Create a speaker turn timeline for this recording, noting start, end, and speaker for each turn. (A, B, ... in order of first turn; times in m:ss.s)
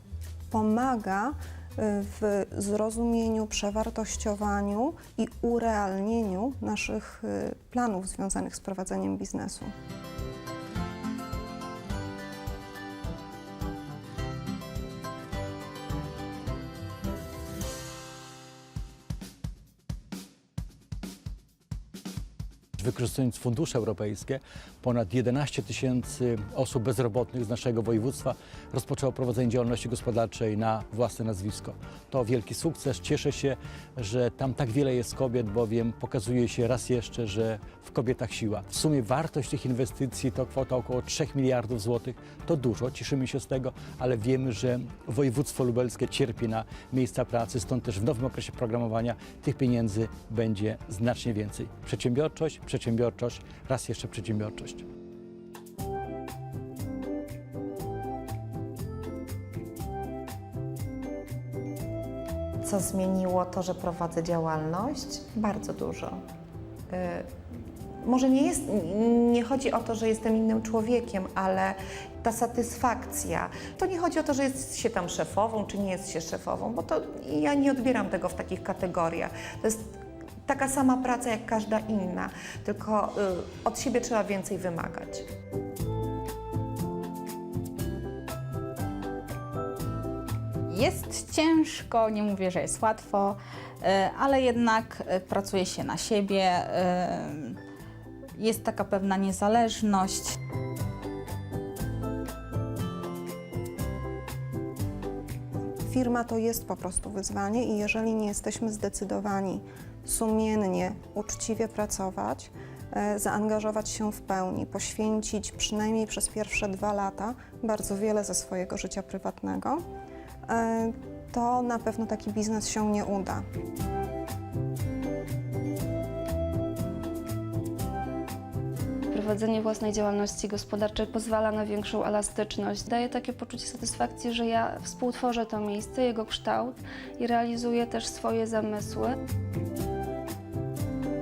0:00.5-0:09.7 A
0:22.8-0:54.9 B
1:02.6-1:06.2 C
1:06.9-1:07.2 C
1:08.0-1:19.7 C
1:20.5-1:25.2 C
1:30.7-1:37.6 D
1:38.4-1:40.4 D
1:45.9-1:59.8 A
2:00.5-2:03.4 A
2:09.1-2:19.2 E